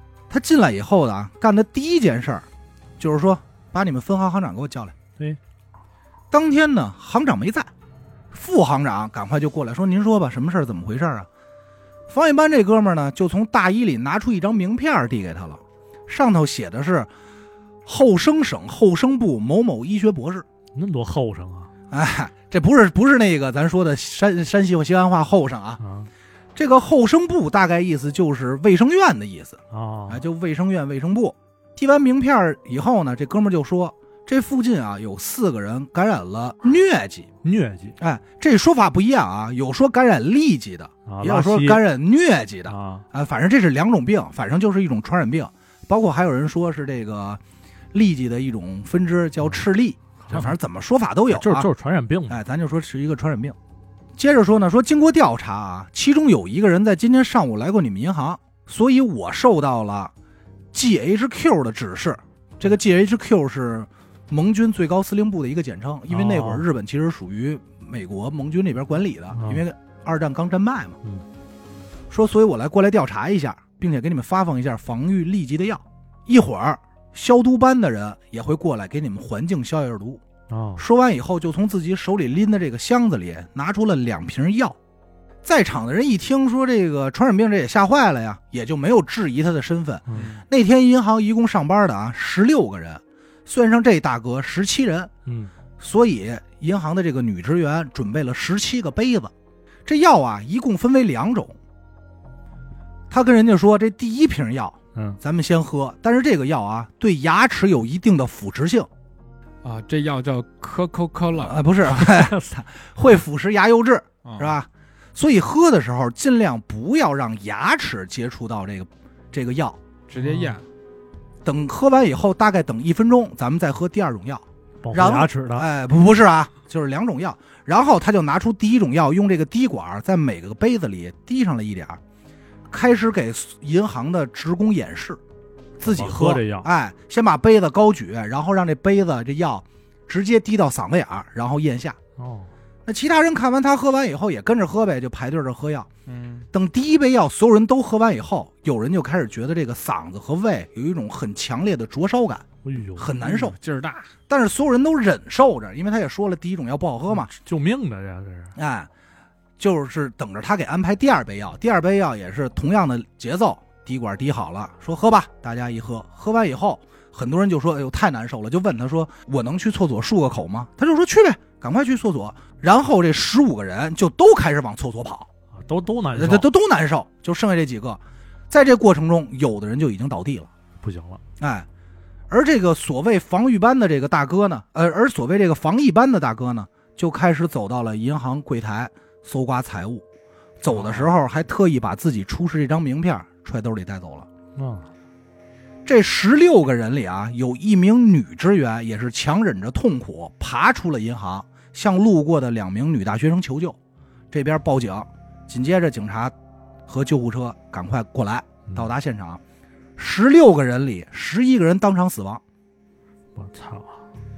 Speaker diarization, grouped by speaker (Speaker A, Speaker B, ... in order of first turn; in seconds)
Speaker A: 0.3-2.5, 3.0-5.0, 6.3-7.7, 8.3-11.3, 12.1-17.1, 17.9-20.5, 21.9-25.8, 26.6-37.3, 38.0-47.4, 47.9-51.7, 52.3-53.6, 54.2-60.1, 60.7-71.0, 72.1-80.2, 80.8-84.8, 85.4-95.1, 95.8-99.3, 99.9-101.6, 103.1-108.9, 111.3-119.8, 121.4-132.0, 132.7-135.2, 135.8-142.0, 142.9-145.9, 146.5-152.4, 153.0-153.6, 154.3-157.3, 158.6-158.9, 159.6-175.3, 176.2-180.5, 181.4-181.7, 182.3-190.1, 190.6-194.3, 195.9-203.8, 204.3-206.3, 206.9-209.4, 210.0-212.4
Speaker B: 20.8-21.7, 25.8-26.1, 29.7-30.2, 37.4-38.0, 41.1-41.8, 42.7-43.1, 50.2-50.5, 51.3-52.4, 66.1-66.7, 69.3-69.6, 80.5-80.8, 95.3-95.5, 112.2-112.5, 120.2-120.6, 124.8-125.7, 135.8-136.7, 142.2-142.5, 152.6-153.1, 157.1-158.6, 175.6-176.5, 180.8-181.2, 190.7-191.1, 194.6-194.9, 213.4-214.0
Speaker C: 90.1-90.5, 109.6-112.1, 114.2-114.5, 120.1-120.7, 146.1-146.5, 153.2-154.1